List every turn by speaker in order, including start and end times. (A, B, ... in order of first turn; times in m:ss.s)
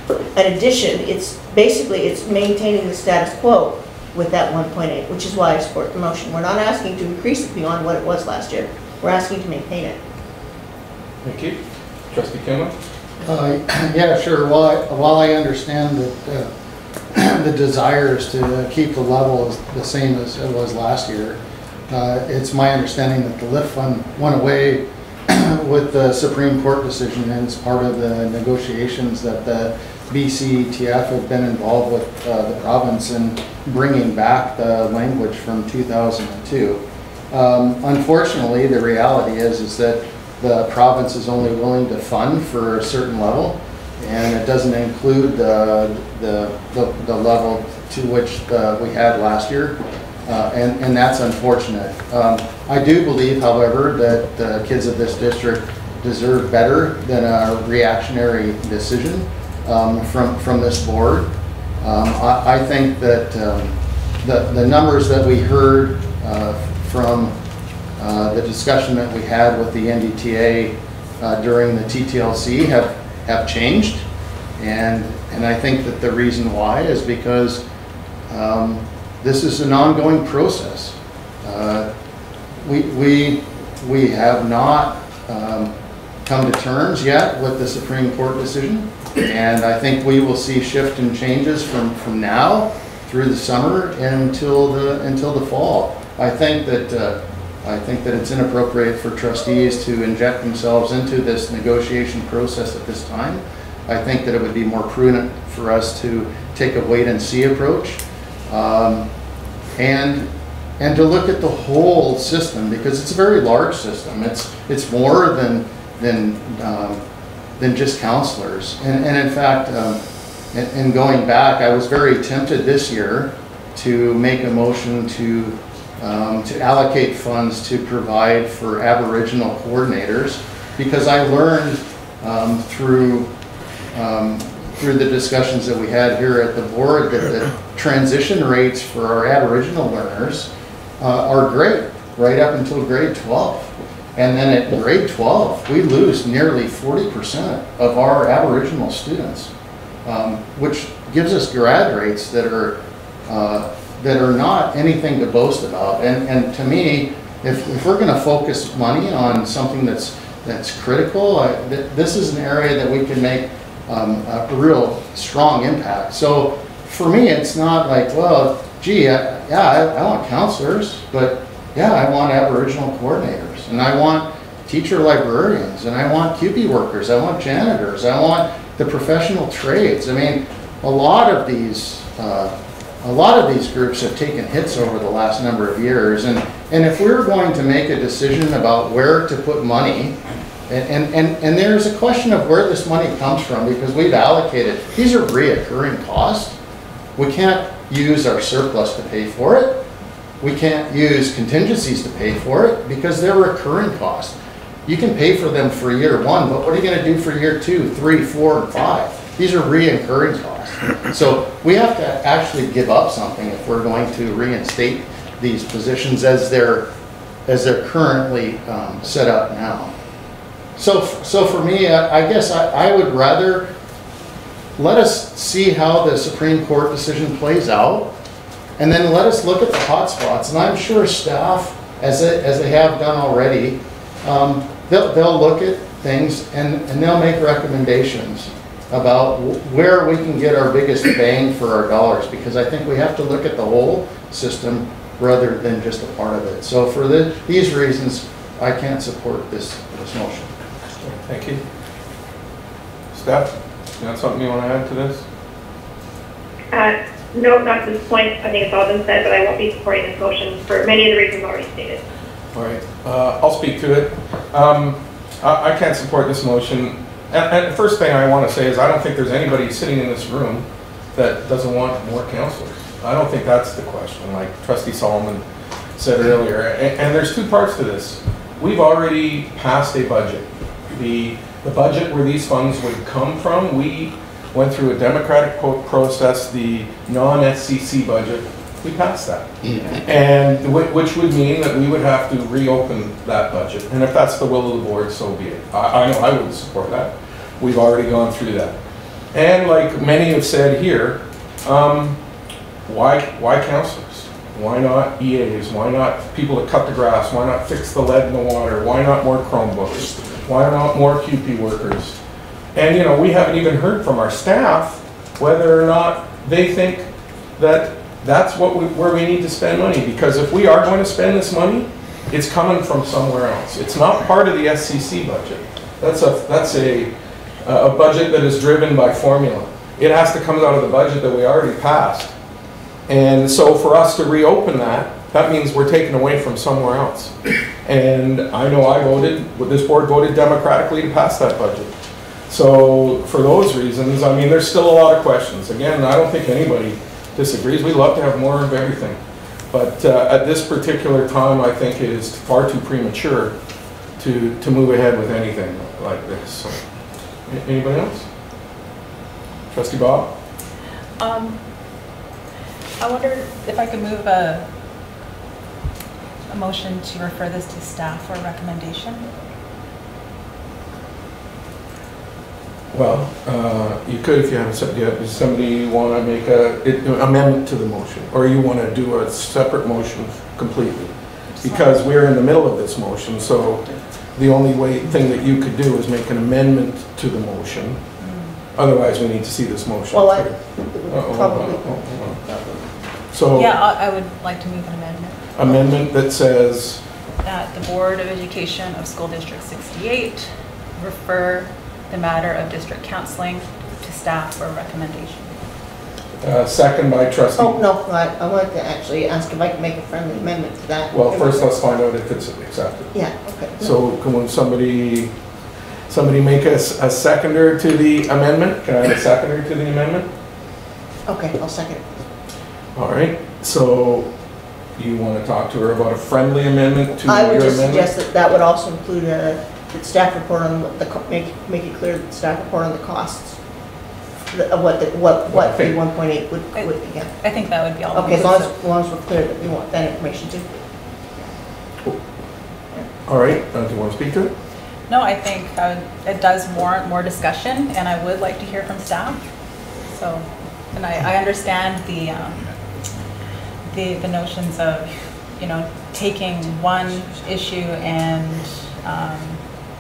0:00.4-0:10.0 A
0:11.2-0:11.6 B
0:12.1-0:12.8 B
0:13.2-0:16.5 C
0:17.1-1:07.4 C
1:08.0-1:14.0 C
1:14.6-1:17.6 C
1:18.3-1:21.9 C
1:22.6-1:25.7 C
1:26.2-1:49.1 C
1:49.8-1:57.0 C
1:57.6-2:00.0 C
2:00.5-2:13.3 C
2:13.9-2:29.5 C
2:30.0-3:16.6 C
3:17.2-3:19.8 C
3:20.4-3:36.9 C
3:37.5-3:39.9 C
3:40.8-3:43.7 C
3:44.8-3:48.1 C
3:48.8-4:10.5 C
4:11.0-4:11.6 B
4:13.1-4:15.2 B
4:16.7-4:22.0 D
4:22.5-4:35.4 B
4:36.0-4:58.8 B
4:59.3-5:02.2 B
5:02.9-5:12.2 B
5:12.8-5:27.1 B
5:27.6-5:32.3 B
5:33.1-5:41.9 B
5:42.5-5:49.2 B
5:49.7-5:53.6 B
5:54.2-5:56.8 B
5:57.5-5:58.3 B
5:59.7-6:00.3 B
6:01.2-6:01.6 E
6:03.0-6:04.7 E
6:06.5-6:09.2 E
6:12.9-6:28.0 B
6:21.6-6:21.9 E
6:28.2-6:28.5 E
6:28.8-6:30.5 B
6:30.1-6:32.7 A
6:31.1-6:32.4 B
6:33.3-6:33.8 B
6:33.6-6:35.5 E
6:35.6-6:37.0 B
6:37.4-6:45.5 E
6:46.4-6:47.8 B
6:47.6-6:51.7 A
6:51.1-6:53.2 B
6:53.1-6:53.8 A
6:53.8-6:55.4 B
6:56.1-7:00.3 B
7:01.3-7:02.1 A
7:03.0-7:04.3 B
7:05.0-7:08.1 B
7:07.3-7:13.6 A
7:14.5-7:17.3 A
7:15.5-7:16.0 B
7:16.8-7:18.7 E
7:18.1-7:20.7 A
7:23.3-7:24.5 B
7:25.1-7:29.4 E
7:30.1-7:32.7 E
7:33.9-7:39.6 E